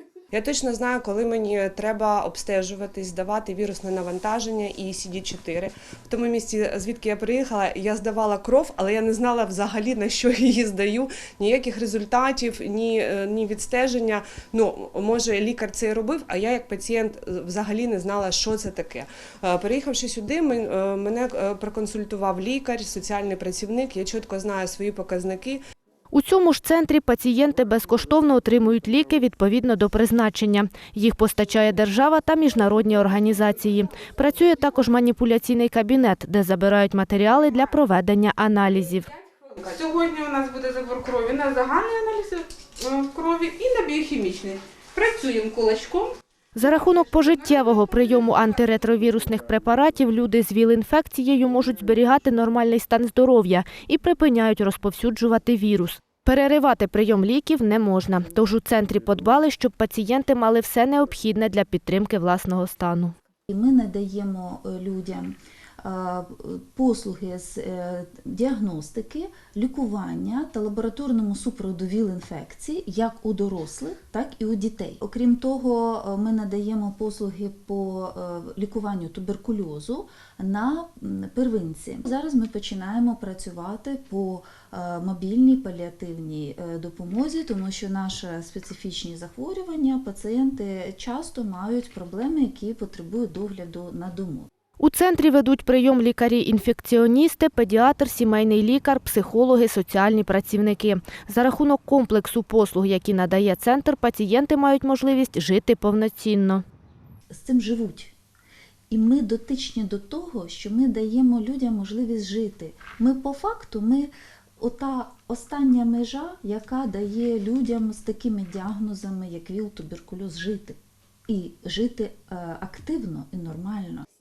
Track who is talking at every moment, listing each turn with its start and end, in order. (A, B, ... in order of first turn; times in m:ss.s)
0:00.3-0:25.6 A
0:26.1-0:39.1 B
0:39.5-0:46.1 C
0:46.5-1:03.1 B
1:03.5-1:34.5 D
1:34.8-1:46.6 B
1:47.3-1:48.1 D
1:48.9-2:04.0 D